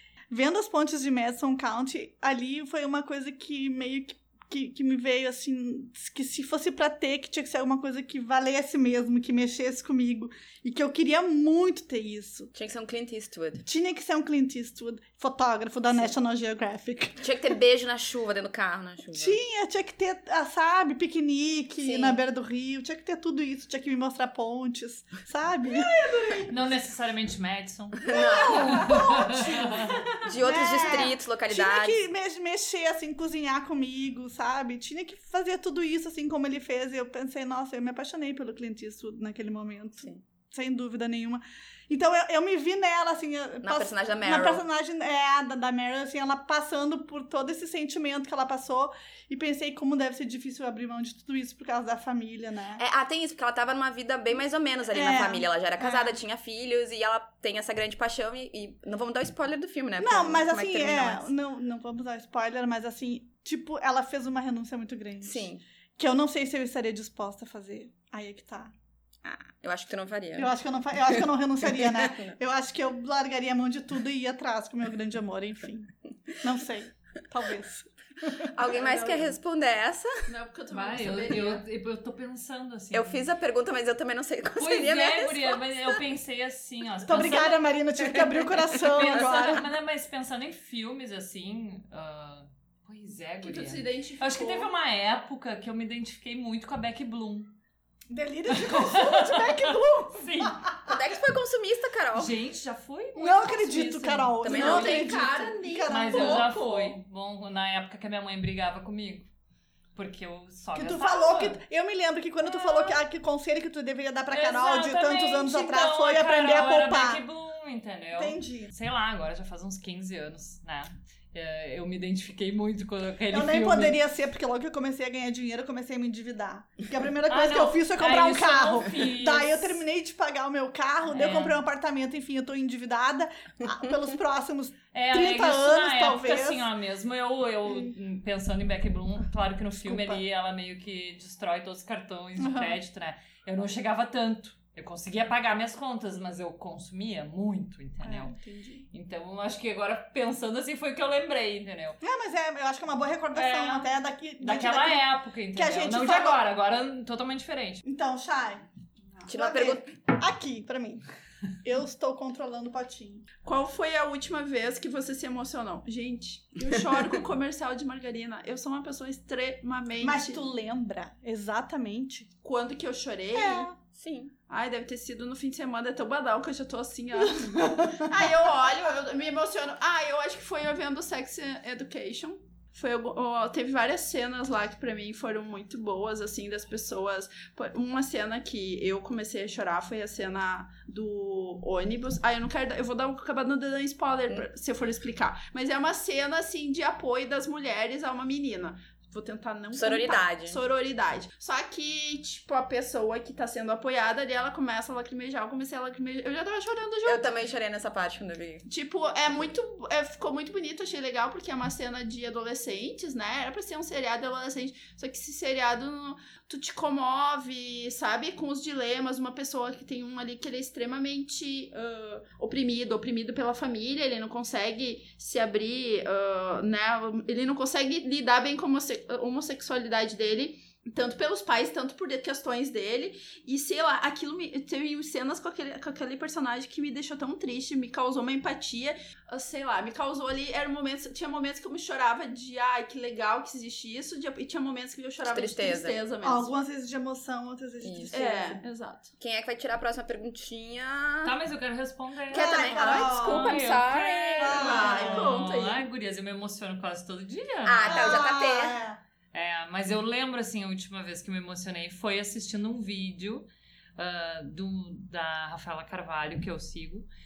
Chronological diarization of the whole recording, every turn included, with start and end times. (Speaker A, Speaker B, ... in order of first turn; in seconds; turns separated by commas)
Speaker A: 0.3-12.5, Speaker B: 12.5-13.7, Speaker A: 13.7-17.2, Speaker B: 17.2-19.4, Speaker A: 19.1-26.5, Speaker B: 21.8-22.2, Speaker C: 25.8-26.4, Speaker D: 26.5-30.0, Speaker B: 28.0-28.9, Speaker A: 28.1-52.8, Speaker B: 30.2-32.0, Speaker B: 43.6-44.6, Speaker B: 52.8-61.3, Speaker A: 54.9-56.2, Speaker A: 60.0-68.7, Speaker B: 65.2-65.6, Speaker B: 69.2-70.5, Speaker A: 70.4-75.9, Speaker B: 71.1-72.3, Speaker A: 76.4-78.5, Speaker B: 78.5-80.1, Speaker C: 78.7-79.3, Speaker C: 80.3-81.6, Speaker D: 80.7-83.2, Speaker B: 82.9-85.6, Speaker D: 84.6-87.6, Speaker A: 87.1-89.7, Speaker D: 88.7-97.5, Speaker C: 93.4-94.7, Speaker A: 98.1-101.0, Speaker D: 98.5-100.7, Speaker B: 100.9-102.3, Speaker D: 102.1-104.5, Speaker A: 103.2-106.5, Speaker B: 104.4-105.1, Speaker C: 104.4-107.0, Speaker D: 105.9-109.3, Speaker D: 110.0-111.6, Speaker A: 110.8-117.2, Speaker D: 114.3-124.0, Speaker A: 118.2-118.7, Speaker A: 123.3-136.7, Speaker D: 127.3-129.8, Speaker D: 131.1-131.6, Speaker D: 134.9-148.3, Speaker A: 137.7-137.9, Speaker A: 139.8-140.2, Speaker A: 142.4-142.8, Speaker A: 148.0-148.8, Speaker D: 148.9-152.0, Speaker A: 152.0-156.4, Speaker D: 153.3-153.9, Speaker D: 154.4-157.8, Speaker A: 157.8-161.0, Speaker B: 159.3-159.9, Speaker A: 161.6-163.3, Speaker C: 163.4-170.4, Speaker A: 170.0-172.3, Speaker C: 172.4-173.7, Speaker A: 173.3-173.8, Speaker B: 173.9-174.3, Speaker C: 174.5-207.2, Speaker A: 177.2-178.1, Speaker B: 199.7-200.6, Speaker B: 207.0-208.7, Speaker C: 208.7-246.5, Speaker B: 245.3-246.0, Speaker A: 246.2-248.6, Speaker B: 247.8-248.2, Speaker C: 248.1-249.1, Speaker B: 249.2-251.3, Speaker D: 251.2-258.2, Speaker B: 252.3-255.1, Speaker A: 252.3-253.5, Speaker C: 252.6-253.8, Speaker C: 254.3-255.8, Speaker A: 254.4-255.4, Speaker B: 257.7-258.8, Speaker A: 257.9-259.0, Speaker D: 259.3-263.5, Speaker D: 264.0-267.1